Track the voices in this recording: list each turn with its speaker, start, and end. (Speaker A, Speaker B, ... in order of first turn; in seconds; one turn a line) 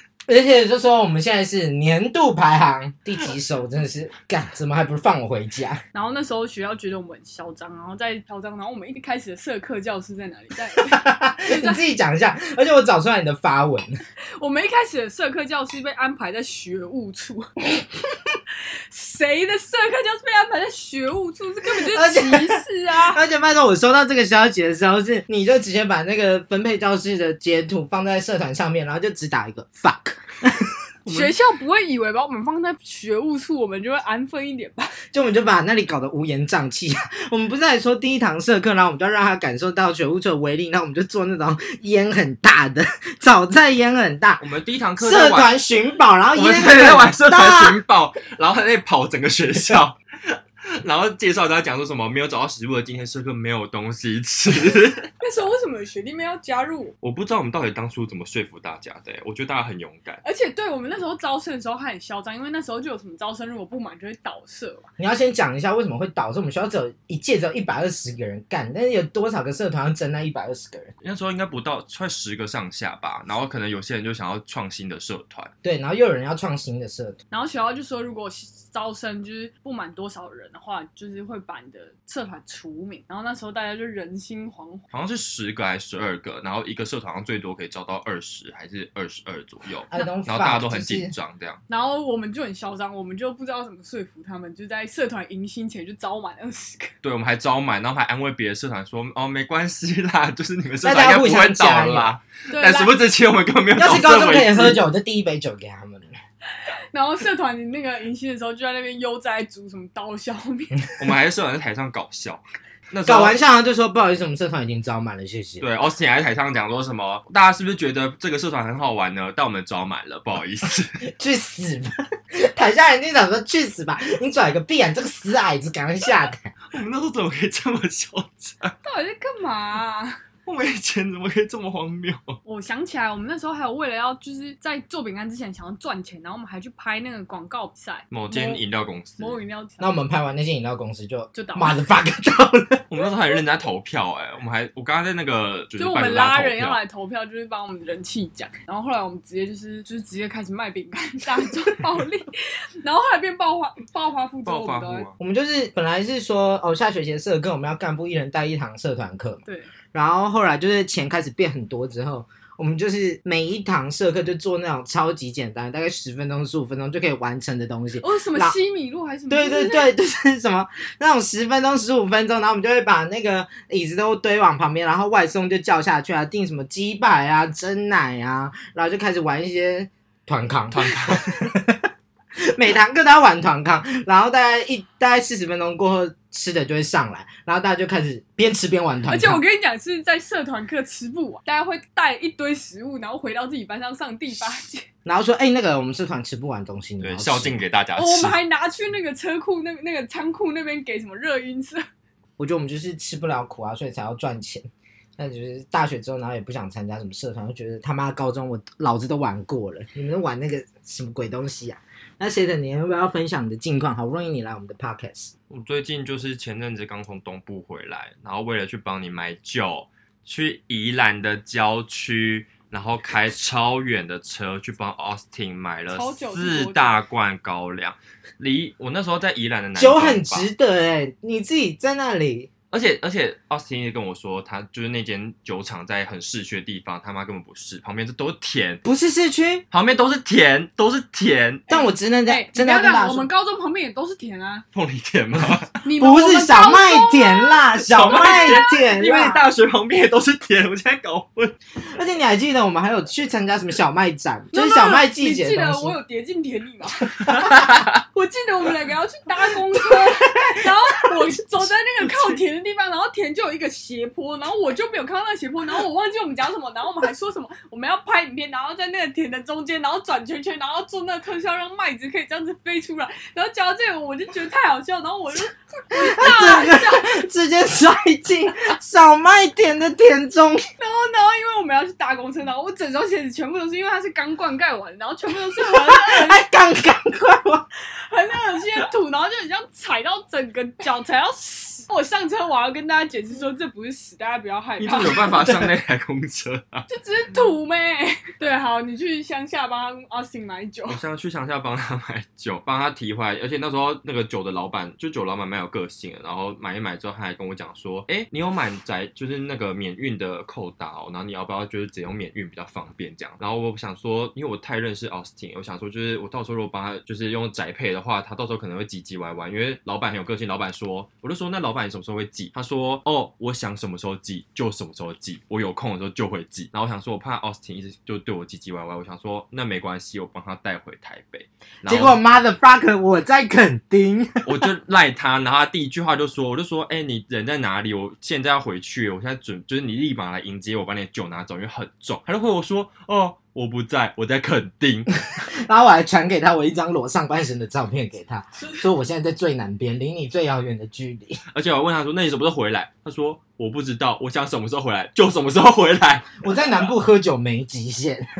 Speaker A: 0.3-5.8
Speaker B: 5.9-11.8
Speaker A: 10.9-13.9
Speaker B: 14.4-17.5
Speaker B: 18.9-23.2
Speaker A: 21.9-30.6
Speaker C: 31.1-31.3
Speaker B: 31.1-35.0
Speaker A: 35.1-44.4
Speaker C: 44.4-45.5
Speaker A: 45.0-47.8
Speaker C: 46.3-55.1
Speaker B: 55.2-56.9
Speaker C: 57.0-60.2
Speaker B: 60.2-64.9
Speaker A: 65.0-70.9
Speaker C: 71.0-75.5
Speaker A: 75.6-77.2
Speaker B: 77.3-84.8
Speaker C: 84.9-91.6
Speaker A: 89.9-91.1
Speaker B: 91.7-96.9
Speaker C: 97.0-104.8
Speaker A: 100.8-102.1
Speaker B: 102.5-103.0
Speaker A: 103.8-106.1
Speaker B: 106.9-110.9
Speaker C: 111.0-113.4
Speaker A: 113.0-115.6
Speaker C: 115.6-121.0
Speaker A: 121.1-126.5
Speaker C: 126.7-128.7
Speaker B: 128.8-130.2
Speaker C: 130.4-132.4
Speaker B: 132.4-138.7
Speaker C: 138.1-139.4
Speaker B: 139.2-140.0
Speaker A: 139.8-142.9
Speaker B: 141.3-141.8
Speaker C: 142.9-146.8
Speaker B: 145.8-152.3
Speaker B: 152.8-155.1
Speaker C: 154.4-155.1
Speaker A: 155.2-168.6
Speaker B: 159.4-159.7
Speaker B: 168.0-169.9
Speaker A: 169.3-181.8
Speaker C: 180.7-181.5
Speaker A: 182.5-189.4
Speaker B: 189.1-194.9
Speaker A: 195.0-197.6
Speaker C: 197.0-198.4
Speaker B: 198.0-201.8
Speaker A: 202.4-204.7
Speaker A: 205.2-215.3
Speaker C: 215.5-230.5
Speaker B: 225.9-227.0
Speaker A: 229.7-232.5
Speaker C: 232.7-238.8
Speaker A: 238.8-239.6
Speaker C: 239.7-241.8
Speaker B: 241.7-244.6
Speaker A: 241.7-243.3
Speaker C: 244.7-245.8
Speaker B: 245.8-249.3
Speaker A: 246.0-249.4
Speaker C: 247.8-251.5
Speaker A: 251.9-256.0
Speaker B: 254.5-257.4
Speaker C: 257.2-257.9
Speaker B: 258.1-277.2
Speaker A: 276.0-280.6
Speaker B: 280.8-286.5
Speaker A: 285.6-287.6
Speaker B: 288.1-295.5
Speaker C: 294.8-296.9
Speaker B: 296.9-301.0
Speaker C: 300.9-332.2
Speaker A: 331.8-334.7
Speaker C: 334.4-345.1
Speaker A: 345.6-351.4
Speaker B: 348.5-348.9
Speaker C: 351.5-356.4
Speaker A: 356.4-358.2